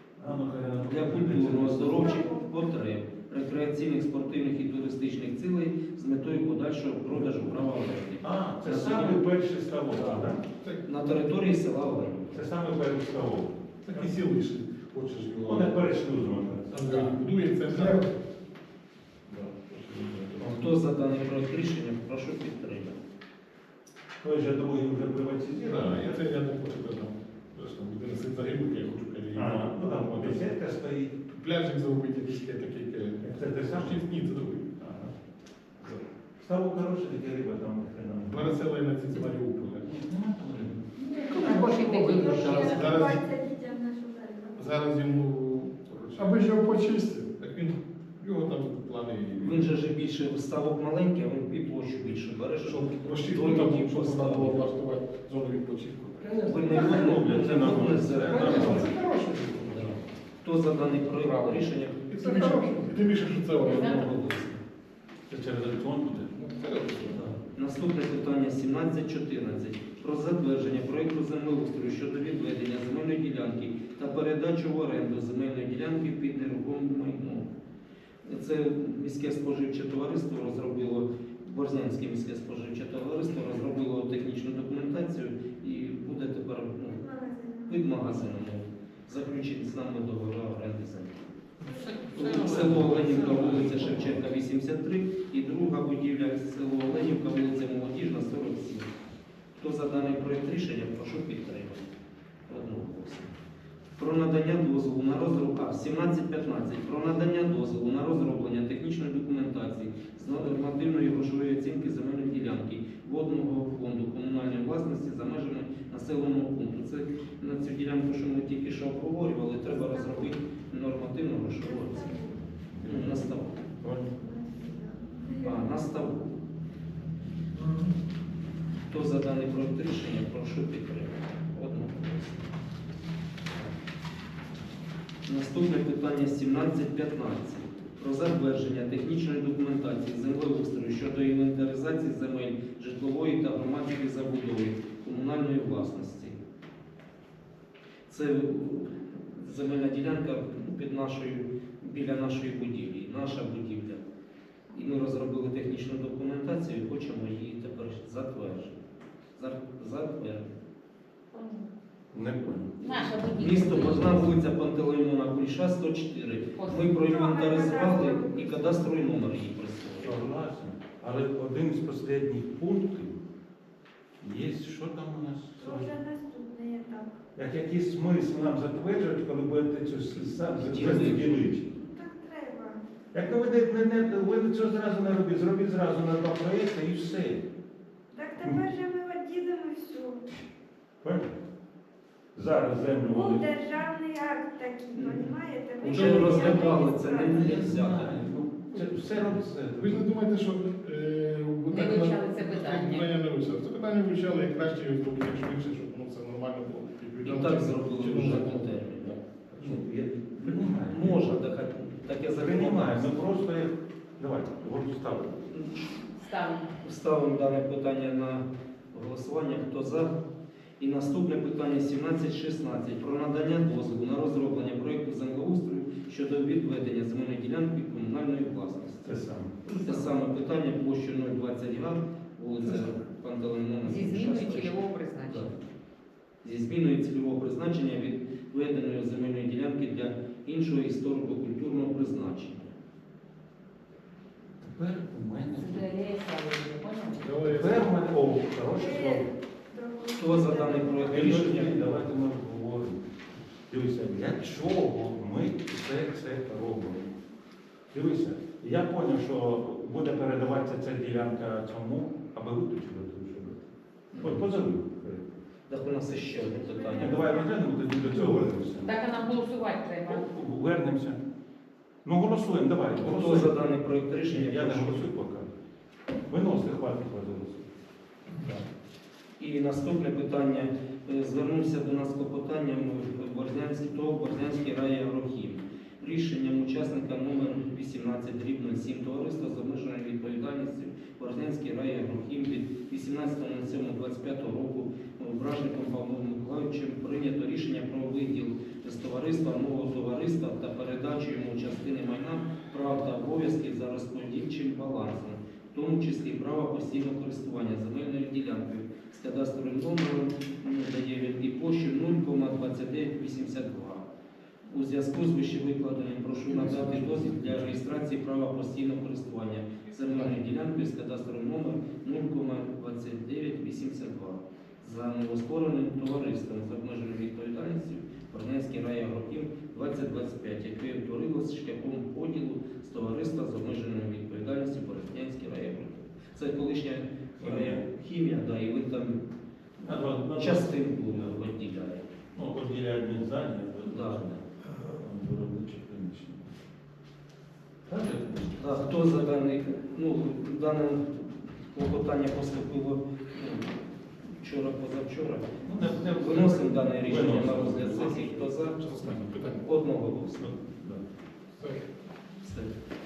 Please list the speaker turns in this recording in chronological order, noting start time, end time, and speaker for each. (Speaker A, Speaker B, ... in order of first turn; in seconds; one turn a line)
Speaker A: 0.2-2.2
Speaker B: 0.8-9.2
Speaker C: 1.8-2.8
Speaker A: 8.2-10.4
Speaker D: 10.0-10.8
Speaker B: 10.8-12.5
Speaker A: 12.3-14.2
Speaker D: 13.9-15.8
Speaker A: 15.4-17.1
Speaker D: 16.7-18.1
Speaker E: 17.7-18.0
Speaker D: 19.3-20.7
Speaker B: 20.4-23.0
Speaker A: 24.2-26.2
Speaker D: 25.6-30.5
Speaker A: 29.4-31.2
Speaker D: 31.3-34.7
Speaker A: 33.2-34.1
Speaker A: 34.8-35.1
Speaker A: 36.4-38.5
Speaker D: 38.3-39.9
Speaker A: 39.8-40.9
Speaker E: 41.0-42.8
Speaker F: 41.3-43.1
Speaker C: 41.4-44.7
Speaker D: 42.6-43.2
Speaker D: 44.6-46.4
Speaker E: 46.1-47.3
Speaker D: 47.4-49.7
Speaker B: 49.4-54.7
Speaker D: 52.6-56.5
Speaker E: 56.2-56.9
Speaker B: 56.4-58.9
Speaker A: 56.7-58.9
Speaker D: 58.3-60.0
Speaker E: 58.3-59.0
Speaker B: 59.6-62.5
Speaker D: 62.1-64.4
Speaker F: 62.2-62.9
Speaker F: 63.6-64.1
Speaker B: 63.6-64.5
Speaker A: 65.3-66.4
Speaker D: 66.3-67.3
Speaker A: 67.0-67.3
Speaker B: 67.1-77.5
Speaker B: 78.2-87.0
Speaker C: 86.9-87.8
Speaker B: 87.7-91.3
Speaker A: 91.6-94.3
Speaker C: 91.6-92.2
Speaker B: 92.1-98.9
Speaker B: 99.6-101.8
Speaker B: 102.5-103.3
Speaker B: 104.0-122.1
Speaker C: 119.7-120.3
Speaker C: 121.6-122.5
Speaker A: 122.7-123.3
Speaker B: 122.8-123.6
Speaker A: 123.8-124.1
Speaker C: 124.0-125.7
Speaker B: 125.4-126.4
Speaker E: 127.5-127.9
Speaker B: 128.9-132.4
Speaker B: 135.3-146.4
Speaker B: 148.1-154.0
Speaker B: 154.7-158.8
Speaker B: 159.4-160.6
Speaker F: 161.3-161.7
Speaker A: 162.1-163.0
Speaker F: 162.8-164.3
Speaker B: 163.3-170.2
Speaker F: 166.6-166.9
Speaker C: 167.0-168.9
Speaker A: 170.0-173.2
Speaker A: 174.2-175.9
Speaker C: 175.6-177.2
Speaker A: 177.4-181.7
Speaker B: 180.5-181.3
Speaker C: 181.0-182.8
Speaker A: 183.1-187.4
Speaker C: 188.1-190.3
Speaker A: 191.0-191.3
Speaker A: 192.3-193.5
Speaker C: 193.1-197.7
Speaker B: 194.9-198.1
Speaker D: 195.9-196.7
Speaker A: 197.2-200.1
Speaker D: 199.8-209.8
Speaker F: 201.7-203.1
Speaker B: 207.2-209.2
Speaker A: 209.6-211.3
Speaker B: 210.4-213.2
Speaker A: 212.3-215.4
Speaker B: 215.5-216.1
Speaker F: 216.2-216.8
Speaker B: 216.8-220.2
Speaker B: 220.8-229.2
Speaker A: 229.1-229.6
Speaker E: 229.7-230.1
Speaker B: 229.8-235.5
Speaker F: 233.8-235.5
Speaker B: 236.4-242.7
Speaker A: 244.6-245.9
Speaker F: 245.6-247.5
Speaker D: 247.2-248.0
Speaker A: 247.5-249.2
Speaker C: 248.7-251.7
Speaker B: 250.1-251.8
Speaker A: 251.1-253.0
Speaker A: 253.7-257.1
Speaker A: 257.9-263.6
Speaker B: 264.1-264.4
Speaker A: 264.2-265.2
Speaker B: 265.7-267.3
Speaker C: 266.2-267.9
Speaker A: 266.9-269.0
Speaker E: 268.1-268.5
Speaker F: 268.9-270.3
Speaker A: 270.1-271.2
Speaker A: 272.1-273.6
Speaker B: 273.0-275.1
Speaker A: 274.3-275.5
Speaker A: 276.3-277.7
Speaker B: 279.4-314.1
Speaker B: 314.7-339.3
Speaker A: 316.5-317.8
Speaker A: 337.4-337.8
Speaker B: 339.8-342.1
Speaker A: 339.9-341.4
Speaker A: 342.3-346.5
Speaker B: 343.9-344.3
Speaker A: 347.9-349.1
Speaker B: 348.6-355.6
Speaker A: 355.6-358.3
Speaker B: 356.1-358.8
Speaker D: 358.6-359.8
Speaker B: 359.6-360.5
Speaker A: 360.4-361.0
Speaker D: 361.6-361.8
Speaker B: 362.4-362.7